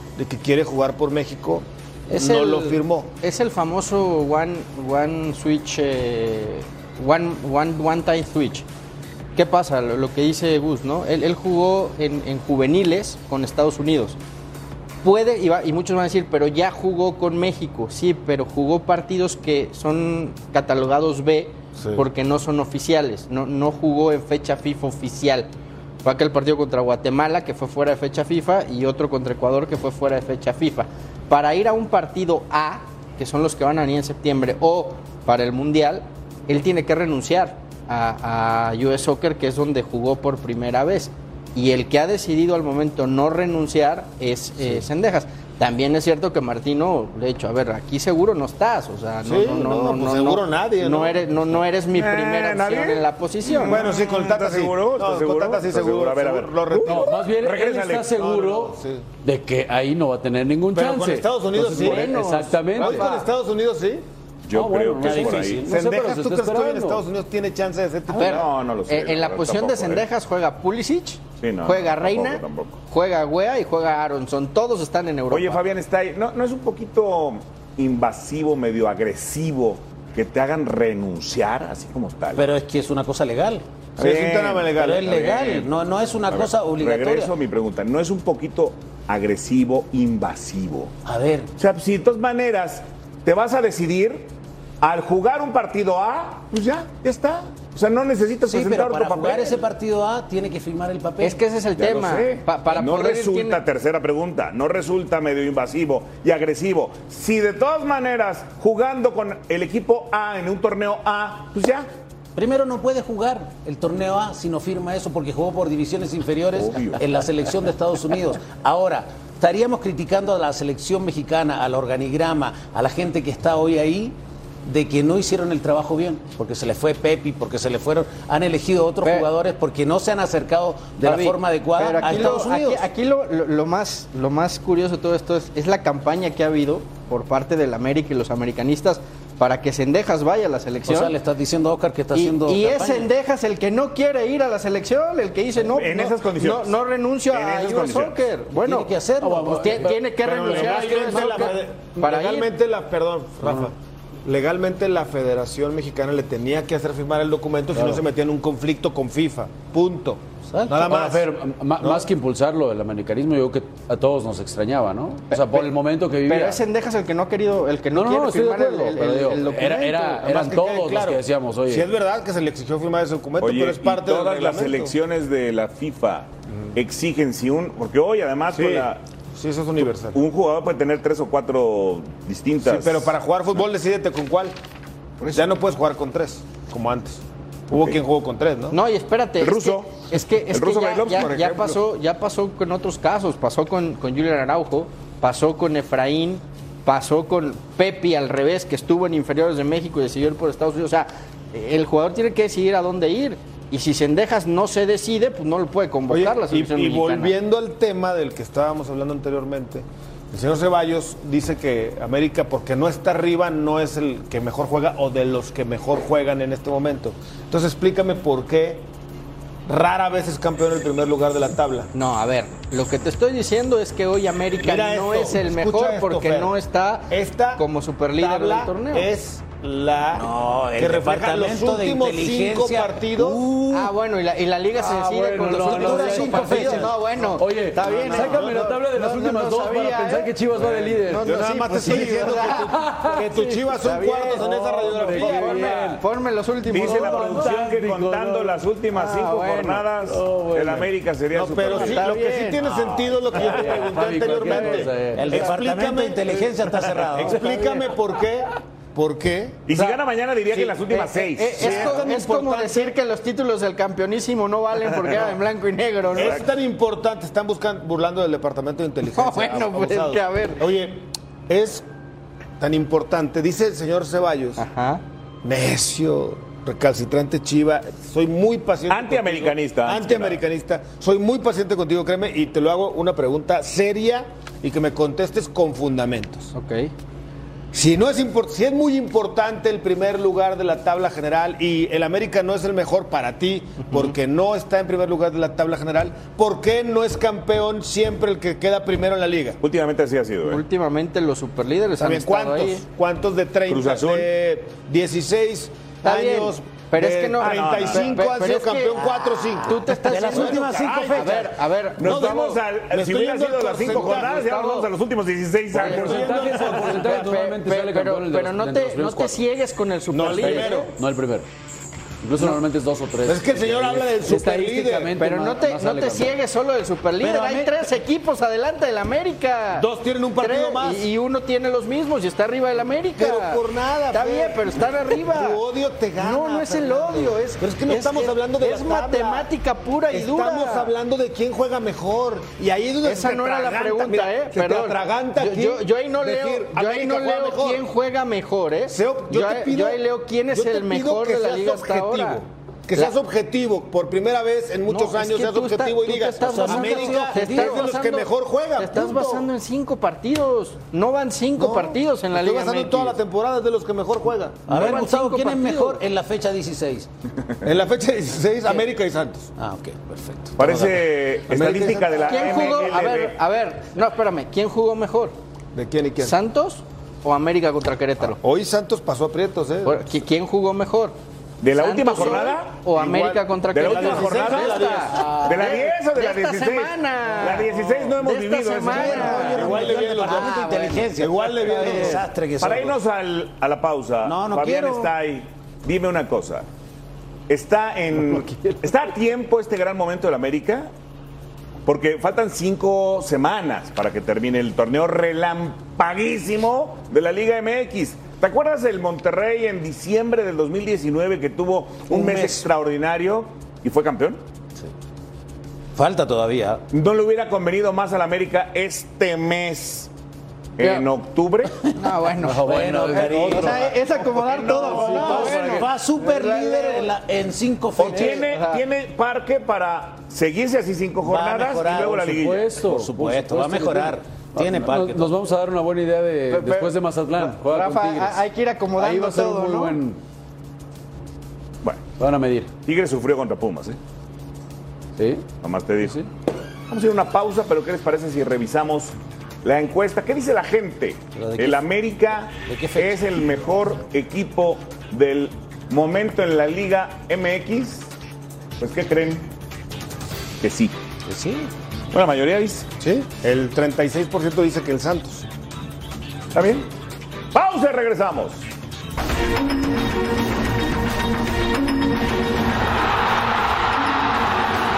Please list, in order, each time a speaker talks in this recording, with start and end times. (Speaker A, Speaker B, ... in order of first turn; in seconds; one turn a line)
Speaker A: 0.2-3.1
Speaker B: 2.1-8.7
Speaker B: 9.3-14.2
Speaker B: 15.0-25.5
Speaker A: 21.8-22.1
Speaker B: 26.0-53.8
Speaker A: 49.2-51.3
Speaker C: 51.9-58.2
Speaker A: 53.6-57.2
Speaker D: 56.9-63.1
Speaker A: 58.1-59.0
Speaker A: 60.7-64.0
Speaker B: 61.6-63.3
Speaker C: 64.5-65.6
Speaker D: 64.5-67.0
Speaker E: 65.0-65.7
Speaker A: 65.7-68.5
Speaker B: 68.1-75.6
Speaker C: 68.1-70.1
Speaker C: 71.4-72.8
Speaker C: 75.3-82.5
Speaker E: 82.3-83.6
Speaker A: 84.0-85.2
Speaker C: 84.0-85.7
Speaker E: 84.7-87.3
Speaker C: 86.3-90.9
Speaker E: 91.0-91.5
Speaker C: 91.6-99.6
Speaker E: 98.5-101.4
Speaker B: 101.2-103.6
Speaker C: 101.8-111.9
Speaker E: 112.4-132.9
Speaker C: 116.5-117.0
Speaker B: 129.0-129.3
Speaker B: 131.0-141.2
Speaker E: 140.9-143.1
Speaker B: 142.1-148.9
Speaker C: 145.7-146.8
Speaker C: 147.3-148.2
Speaker E: 148.6-149.9
Speaker D: 149.2-151.5
Speaker B: 149.6-152.5
Speaker A: 150.2-161.3
Speaker D: 157.8-158.0
Speaker D: 160.7-166.6
Speaker A: 161.8-162.1
Speaker B: 165.3-165.7
Speaker B: 166.3-170.3
Speaker D: 167.9-171.9
Speaker A: 170.2-174.9
Speaker C: 173.4-179.0
Speaker A: 178.5-180.2
Speaker C: 180.1-183.1
Speaker A: 182.6-184.6
Speaker C: 185.2-185.5
Speaker A: 185.3-188.8
Speaker B: 188.7-207.4
Speaker C: 189.4-191.6
Speaker A: 191.1-191.8
Speaker A: 206.1-218.9
Speaker A: 219.7-221.9
Speaker B: 221.9-229.1
Speaker A: 224.6-226.5
Speaker A: 227.1-227.6
Speaker A: 228.2-230.3
Speaker E: 230.2-233.4
Speaker A: 230.8-233.4
Speaker D: 233.2-233.9
Speaker B: 233.7-242.7
Speaker D: 234.8-241.3
Speaker E: 235.5-236.9
Speaker A: 237.8-238.7
Speaker A: 241.2-245.8
Speaker D: 241.8-243.6
Speaker B: 243.8-247.5
Speaker D: 244.4-246.0
Speaker C: 246.7-252.1
Speaker D: 246.8-248.6
Speaker B: 248.9-249.8
Speaker D: 250.1-250.9
Speaker A: 251.3-256.5
Speaker B: 251.6-252.6
Speaker D: 253.3-255.5
Speaker E: 255.2-257.4
Speaker A: 257.1-259.7
Speaker D: 257.2-257.9
Speaker C: 259.7-262.1
Speaker B: 260.8-266.4
Speaker A: 261.6-263.0
Speaker A: 266.1-271.9
Speaker C: 266.1-266.4
Speaker B: 269.1-270.6
Speaker A: 272.6-274.6
Speaker B: 274.6-275.0
Speaker A: 275.4-286.5
Speaker C: 278.9-280.4
Speaker B: 286.5-286.9
Speaker A: 287.7-299.6
Speaker C: 299.6-300.6
Speaker B: 300.5-302.8
Speaker A: 302.0-314.4
Speaker C: 303.7-304.3
Speaker B: 306.0-312.6
Speaker C: 307.4-308.1
Speaker E: 310.0-311.5
Speaker C: 312.0-316.7
Speaker B: 313.9-314.9
Speaker A: 315.7-317.4
Speaker B: 315.8-320.9
Speaker D: 315.9-319.4
Speaker A: 320.1-320.9
Speaker D: 320.3-321.5
Speaker D: 322.2-326.4
Speaker A: 323.2-325.1
Speaker B: 325.2-329.9
Speaker E: 327.2-327.7
Speaker A: 329.8-331.1
Speaker B: 330.4-333.6
Speaker A: 333.2-339.5
Speaker B: 334.1-335.6
Speaker B: 336.2-340.9
Speaker A: 340.1-347.9
Speaker B: 343.0-352.4
Speaker A: 348.9-359.5
Speaker B: 354.9-363.2
Speaker E: 356.4-357.9
Speaker A: 361.6-365.0
Speaker E: 364.7-367.1
Speaker B: 364.7-366.0
Speaker A: 367.6-369.5
Speaker E: 369.6-371.1
Speaker C: 370.6-373.4
Speaker A: 371.5-372.7
Speaker B: 372.1-375.3
Speaker A: 375.7-376.4
Speaker B: 376.2-378.4
Speaker A: 378.4-380.0
Speaker B: 379.9-381.2
Speaker C: 381.6-382.8
Speaker B: 381.8-391.1
Speaker A: 382.9-385.2
Speaker C: 383.7-389.8
Speaker E: 384.1-385.4
Speaker A: 388.9-392.2
Speaker E: 388.9-393.0
Speaker B: 391.7-392.2
Speaker C: 392.6-396.7
Speaker E: 394.2-395.1
Speaker C: 397.5-400.9
Speaker C: 401.9-414.4
Speaker E: 412.1-412.6
Speaker E: 415.9-416.8
Speaker C: 416.9-420.1
Speaker C: 420.8-421.8
Speaker B: 422.0-427.1
Speaker D: 422.4-423.9
Speaker E: 422.6-424.0
Speaker C: 424.4-425.6
Speaker D: 424.8-425.9
Speaker E: 424.8-428.4
Speaker C: 428.0-432.7
Speaker B: 428.0-428.8
Speaker E: 431.2-435.3
Speaker D: 432.2-438.4
Speaker B: 436.5-440.0
Speaker D: 439.0-440.2
Speaker D: 442.2-442.7
Speaker C: 442.9-444.0
Speaker D: 445.2-445.4
Speaker C: 445.6-446.2
Speaker C: 446.9-458.1
Speaker E: 451.4-451.8
Speaker E: 452.6-453.2
Speaker C: 458.8-459.5
Speaker C: 460.6-461.0
Speaker E: 461.3-461.7
Speaker C: 462.1-462.9
Speaker A: 463.0-465.5
Speaker C: 466.5-466.9
Speaker C: 467.5-468.6